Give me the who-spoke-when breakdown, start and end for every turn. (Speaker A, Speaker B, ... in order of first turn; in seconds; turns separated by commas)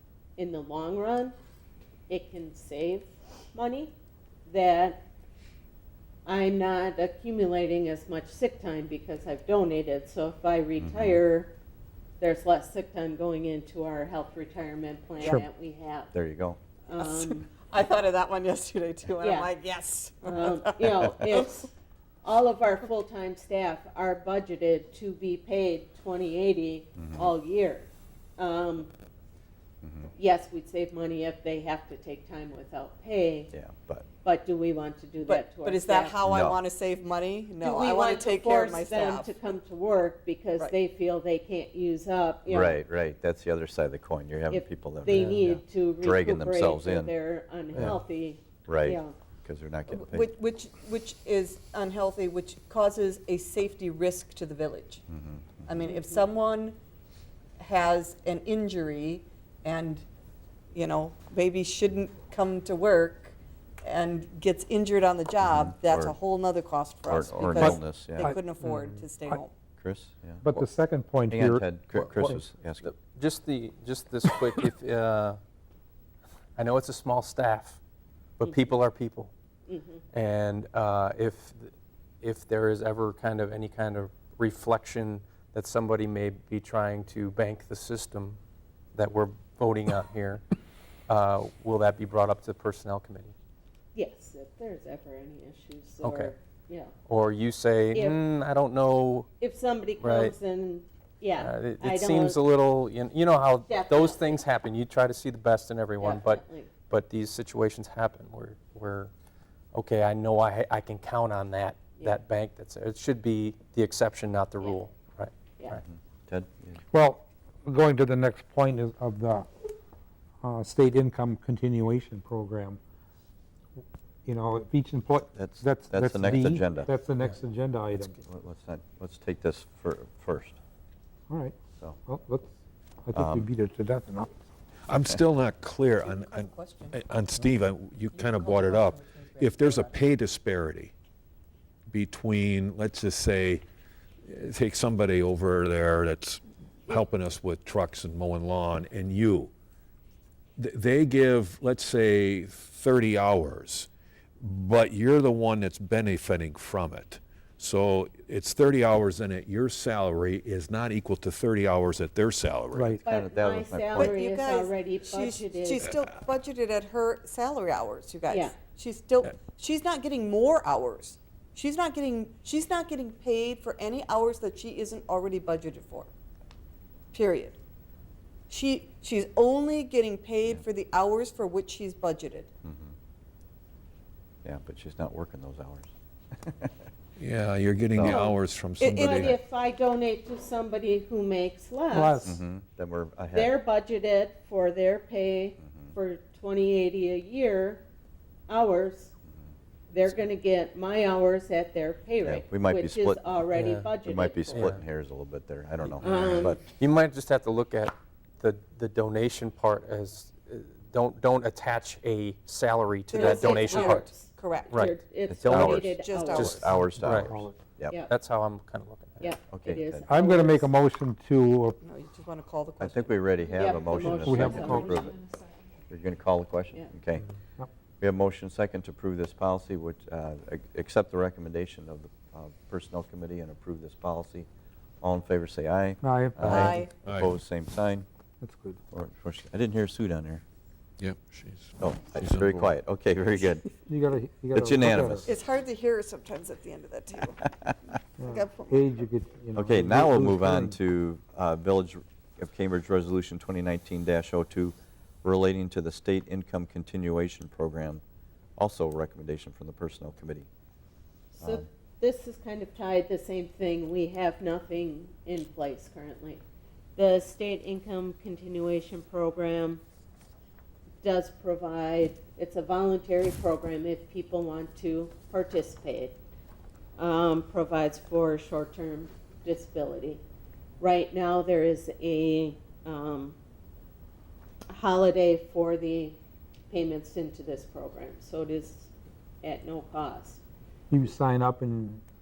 Speaker A: 0.4-1.3, Speaker A: 2.1-3.9, Speaker A: 4.5-5.0, Speaker A: 6.2-11.5, Speaker B: 10.8-11.2, Speaker A: 12.2-16.1, Speaker B: 15.2-15.5, Speaker B: 16.1-16.6, Speaker A: 16.9-17.5, Speaker C: 17.0-21.7, Speaker A: 19.2-19.5, Speaker A: 20.2-21.7, Speaker A: 22.2-28.9, Speaker B: 27.0-27.3, Speaker B: 29.8-30.1, Speaker A: 30.2-33.5, Speaker B: 33.5-34.0, Speaker A: 34.2-36.2, Speaker C: 35.2-39.4, Speaker B: 36.2-36.6, Speaker A: 37.6-42.8, Speaker B: 42.5-47.1, Speaker A: 44.5-49.1, Speaker D: 45.1-45.4, Speaker B: 48.7-50.3, Speaker C: 49.9-55.0, Speaker B: 55.1-55.8, Speaker C: 55.7-56.8, Speaker A: 55.9-56.2, Speaker C: 57.6-60.0, Speaker C: 60.7-69.5, Speaker B: 65.4-66.2, Speaker B: 67.1-68.3, Speaker E: 67.6-69.4, Speaker B: 69.8-70.6, Speaker E: 70.4-72.4, Speaker B: 71.3-72.9, Speaker D: 72.8-75.4, Speaker D: 76.5-77.8, Speaker D: 78.4-79.3, Speaker A: 79.7-80.0, Speaker D: 80.1-88.4, Speaker D: 88.9-90.4, Speaker D: 91.1-93.3, Speaker A: 93.9-96.9, Speaker D: 96.0-96.3, Speaker D: 97.0-99.3, Speaker A: 97.9-98.2, Speaker A: 99.4-102.4, Speaker D: 100.0-100.3, Speaker D: 101.4-109.1, Speaker A: 103.7-104.4, Speaker A: 106.0-106.7, Speaker D: 109.7-115.8, Speaker B: 115.8-116.8, Speaker E: 116.9-119.5, Speaker E: 120.4-122.8, Speaker E: 124.2-128.2, Speaker B: 125.3-126.9, Speaker B: 127.9-130.6, Speaker E: 131.3-134.3, Speaker B: 133.1-133.5, Speaker F: 134.9-140.9, Speaker C: 136.0-137.0, Speaker C: 138.1-139.9, Speaker F: 141.9-143.6, Speaker F: 144.2-149.5, Speaker F: 150.6-153.9, Speaker F: 154.4-162.9, Speaker E: 162.7-163.0, Speaker B: 163.0-164.2, Speaker A: 163.0-165.9, Speaker C: 163.9-176.1, Speaker A: 168.3-168.5, Speaker C: 177.1-177.6, Speaker C: 178.5-182.5, Speaker B: 182.6-182.9, Speaker B: 184.4-186.8, Speaker F: 187.2-189.4, Speaker B: 187.9-188.3, Speaker C: 188.8-189.3, Speaker A: 189.0-192.3, Speaker E: 191.9-192.4, Speaker B: 192.2-193.5, Speaker A: 193.3-197.8, Speaker B: 195.6-195.9, Speaker A: 198.5-199.1, Speaker A: 199.9-204.7, Speaker B: 202.2-203.3, Speaker D: 203.5-203.9, Speaker B: 204.0-206.6, Speaker D: 204.5-204.8, Speaker D: 205.9-214.1, Speaker A: 206.0-206.6, Speaker C: 213.1-215.0, Speaker A: 213.1-216.6, Speaker D: 214.7-217.4, Speaker B: 215.3-217.9, Speaker C: 215.5-216.7, Speaker E: 217.2-217.6, Speaker D: 218.1-219.3, Speaker A: 219.2-220.7, Speaker B: 219.5-220.1, Speaker E: 220.1-221.8, Speaker C: 221.8-223.2, Speaker B: 222.8-225.2, Speaker A: 223.5-225.1, Speaker E: 224.1-225.0, Speaker B: 225.9-227.3, Speaker B: 228.0-234.5, Speaker B: 235.0-238.1, Speaker E: 236.0-236.6, Speaker C: 236.4-236.9, Speaker F: 236.5-237.3, Speaker E: 238.4-238.8, Speaker B: 238.9-240.4, Speaker F: 241.0-242.7, Speaker B: 241.8-243.7, Speaker E: 243.8-245.3, Speaker B: 244.5-245.2, Speaker C: 245.2-247.4, Speaker C: 248.2-249.1, Speaker E: 248.2-250.8, Speaker B: 249.5-258.0, Speaker B: 258.6-260.5, Speaker A: 261.4-266.4, Speaker B: 261.4-261.7, Speaker A: 267.0-269.8, Speaker A: 271.0-276.2, Speaker A: 277.0-280.2, Speaker A: 280.8-283.4, Speaker A: 284.7-286.2, Speaker A: 286.7-288.9, Speaker A: 289.4-290.4, Speaker E: 290.9-292.0